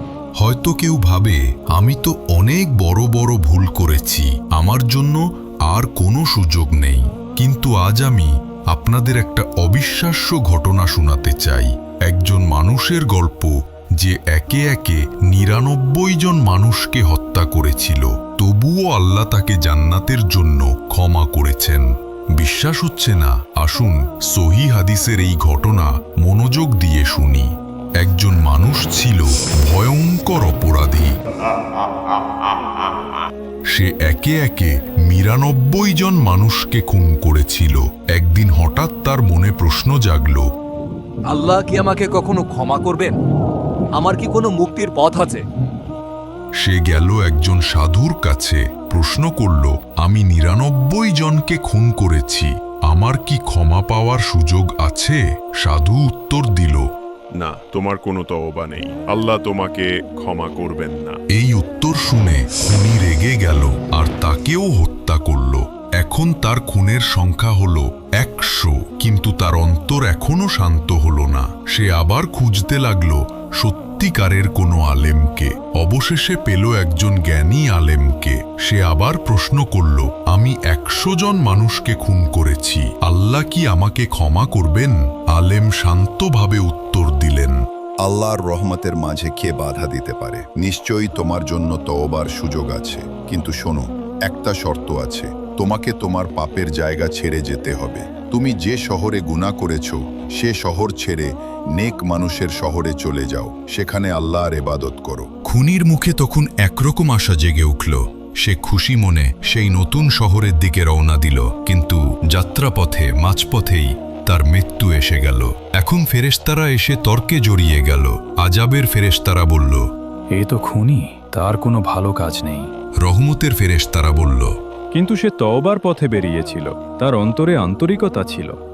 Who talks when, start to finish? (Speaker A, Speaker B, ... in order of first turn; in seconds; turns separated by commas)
Speaker A: 0.4-31.1, Speaker A: 33.7-40.5, Speaker B: 41.3-43.2, Speaker B: 44.0-45.4, Speaker A: 46.6-56.9, Speaker C: 57.4-61.2, Speaker A: 61.3-87.6, Speaker D: 88.0-105.3, Speaker A: 105.4-119.8, Speaker E: 120.4-122.7, Speaker A: 123.0-124.5, Speaker E: 124.9-128.6